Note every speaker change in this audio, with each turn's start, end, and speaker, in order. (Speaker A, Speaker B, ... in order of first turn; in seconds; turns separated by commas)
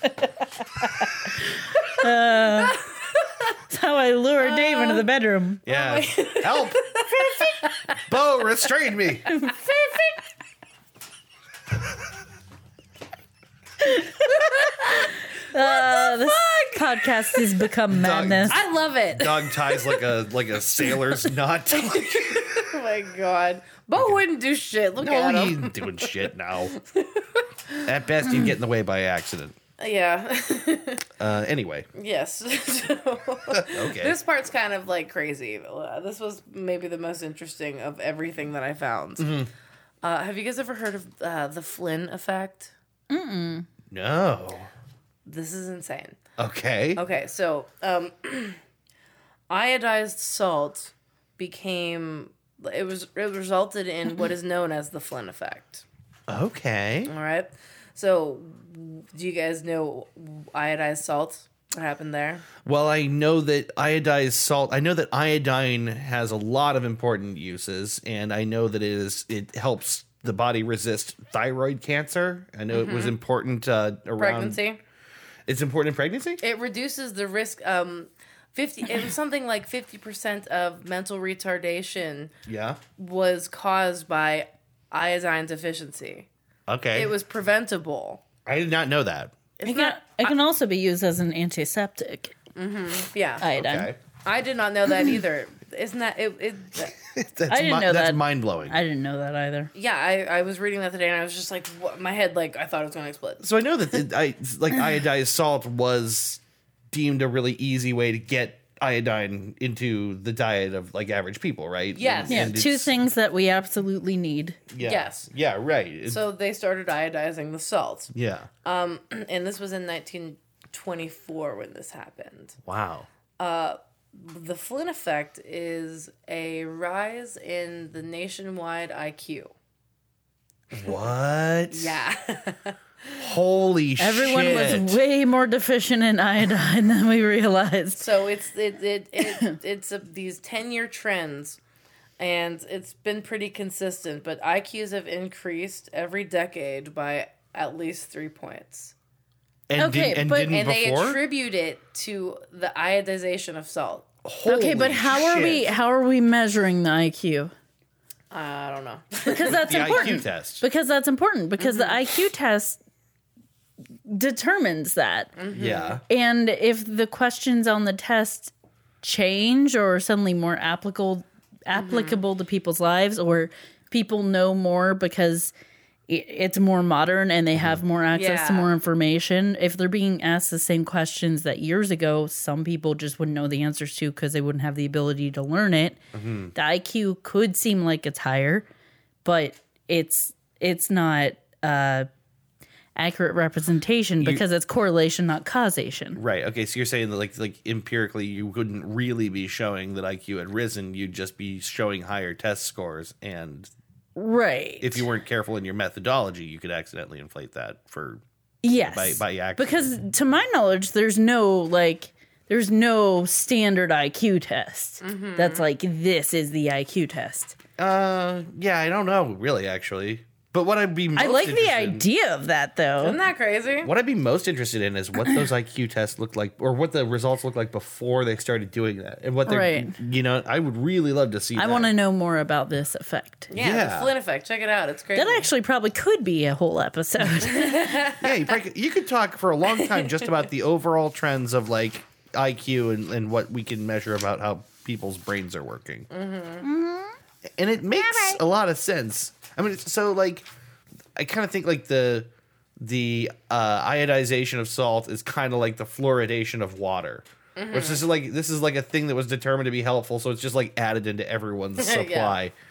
Speaker A: 0.8-2.8, Speaker B: 2.5-3.5, Speaker A: 3.7-5.7, Speaker B: 4.4-5.1, Speaker C: 5.7-7.3, Speaker B: 5.7-8.0, Speaker C: 8.1-9.3, Speaker A: 9.3-9.8, Speaker B: 9.3-10.2, Speaker A: 13.8-14.1, Speaker B: 14.2-17.5, Speaker A: 15.5-18.6, Speaker C: 17.9-22.7, Speaker B: 18.5-20.1, Speaker B: 20.9-21.2, Speaker B: 21.7-27.9, Speaker C: 25.0-26.7, Speaker C: 27.9-29.6, Speaker B: 29.8-31.1, Speaker C: 31.2-31.9, Speaker B: 31.9-39.4, Speaker C: 33.5-34.1, Speaker C: 39.2-39.5, Speaker B: 40.0-42.7, Speaker A: 43.1-43.7, Speaker C: 43.9-44.7, Speaker B: 45.3-46.2, Speaker C: 46.4-47.0, Speaker B: 47.0-48.6, Speaker B: 49.5-55.8, Speaker C: 56.3-57.1, Speaker B: 57.1-62.5, Speaker C: 62.6-74.6, Speaker B: 72.7-73.2, Speaker B: 74.2-74.8, Speaker C: 75.5-76.4, Speaker B: 76.4-82.3, Speaker C: 82.5-82.8, Speaker B: 83.0-86.3, Speaker C: 86.7-87.1, Speaker B: 86.9-88.2, Speaker C: 88.5-89.4, Speaker B: 89.6-90.3, Speaker A: 89.6-92.3, Speaker B: 92.6-93.5, Speaker A: 93.4-93.9, Speaker C: 93.5-94.0, Speaker B: 94.1-97.0, Speaker C: 97.1-98.8, Speaker A: 97.5-99.7, Speaker B: 99.8-103.5, Speaker C: 103.4-112.9, Speaker B: 111.9-112.5, Speaker A: 112.3-114.6, Speaker C: 114.7-116.2, Speaker B: 114.8-115.3, Speaker B: 116.1-122.6, Speaker C: 118.1-118.5, Speaker C: 122.7-123.1, Speaker B: 123.4-129.5, Speaker C: 130.7-132.0, Speaker B: 131.7-133.3, Speaker C: 133.2-135.0, Speaker A: 134.0-138.1, Speaker B: 138.0-141.6, Speaker B: 142.2-148.9, Speaker C: 149.7-151.2, Speaker A: 149.8-150.5, Speaker B: 150.5-154.1, Speaker C: 154.2-155.7, Speaker A: 154.4-157.5, Speaker B: 158.3-160.1, Speaker A: 159.2-162.8, Speaker C: 159.5-160.6, Speaker B: 161.6-162.0, Speaker A: 164.1-165.3, Speaker B: 165.4-166.0, Speaker C: 165.5-166.0, Speaker A: 166.1-175.5, Speaker B: 171.7-172.2, Speaker A: 176.1-186.0, Speaker C: 177.6-177.8, Speaker B: 178.1-178.7, Speaker C: 186.1-186.5, Speaker A: 186.6-188.7, Speaker A: 189.2-192.1, Speaker A: 193.0-196.2, Speaker C: 196.2-203.7, Speaker A: 204.2-205.1, Speaker C: 204.8-208.2, Speaker A: 208.6-217.6, Speaker C: 208.8-209.9, Speaker B: 215.0-215.7, Speaker C: 217.8-222.1, Speaker A: 221.2-223.2, Speaker B: 223.0-223.9, Speaker C: 223.8-231.9, Speaker A: 229.5-230.0, Speaker A: 231.6-233.5, Speaker B: 233.5-235.5, Speaker C: 233.6-234.2, Speaker A: 235.2-237.9, Speaker B: 237.4-238.6, Speaker C: 238.2-246.1, Speaker B: 239.8-240.2, Speaker B: 246.1-246.7, Speaker A: 246.6-247.2, Speaker C: 247.6-250.5, Speaker A: 248.0-248.4, Speaker C: 251.2-262.5, Speaker B: 257.6-258.0, Speaker B: 261.8-262.4